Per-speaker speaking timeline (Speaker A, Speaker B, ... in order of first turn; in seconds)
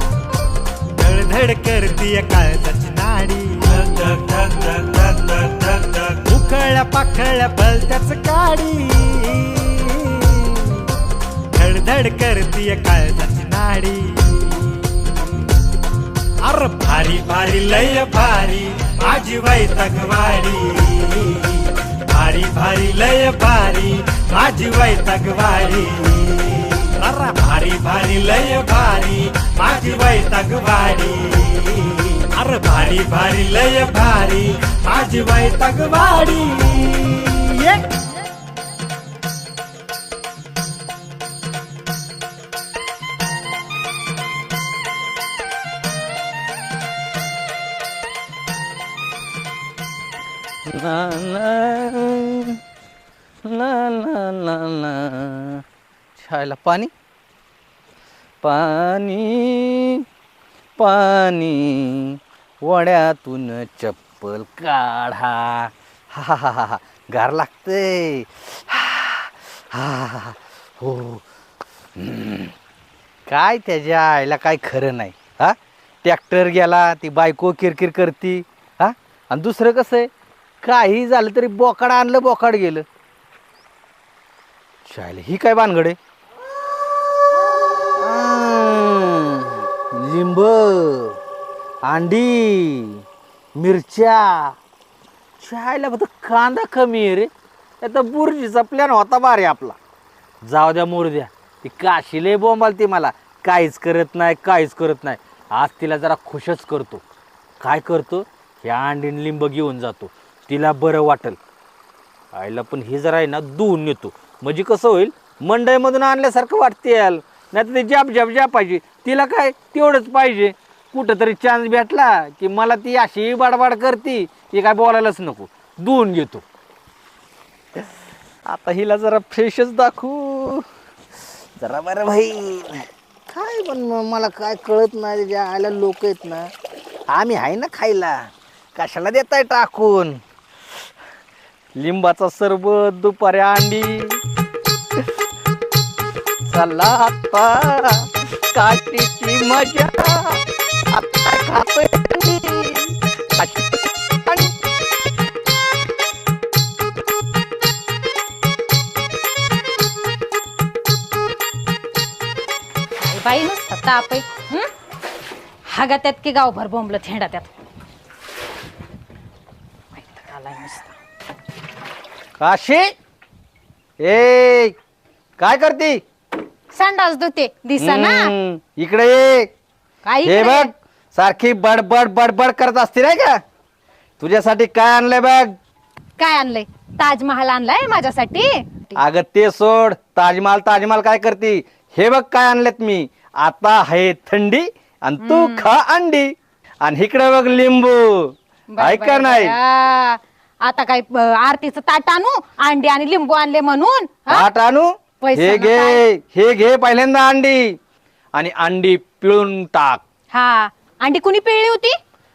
Speaker A: 1.0-10.6, 11.6-14.7, 16.4-37.8
Speaker B: 50.7-52.6, 53.5-55.6, 56.2-56.9, 58.4-60.0, 60.8-71.2, 72.0-72.5, 73.3-80.1, 80.6-82.8, 84.9-86.0, 88.0-91.2, 91.9-93.0, 93.5-94.6, 95.4-97.3, 97.8-99.8, 100.4-107.0, 107.6-111.4, 112.3-126.4, 128.5-130.6, 131.6-136.5, 137.1-140.2, 141.8-144.2, 146.5-150.4, 150.9-154.5, 172.4-172.9, 174.0-174.8, 175.4-176.0, 177.8-179.5, 180.2-183.4, 184.2-185.5, 189.0-199.6, 204.3-207.8, 208.3-210.0
Speaker C: 163.0-164.7, 165.7-167.5, 169.9-170.9, 176.7-178.3, 180.0-180.7, 186.2-189.0, 195.2-195.7, 198.7-204.5, 205.2-206.0, 210.3-212.0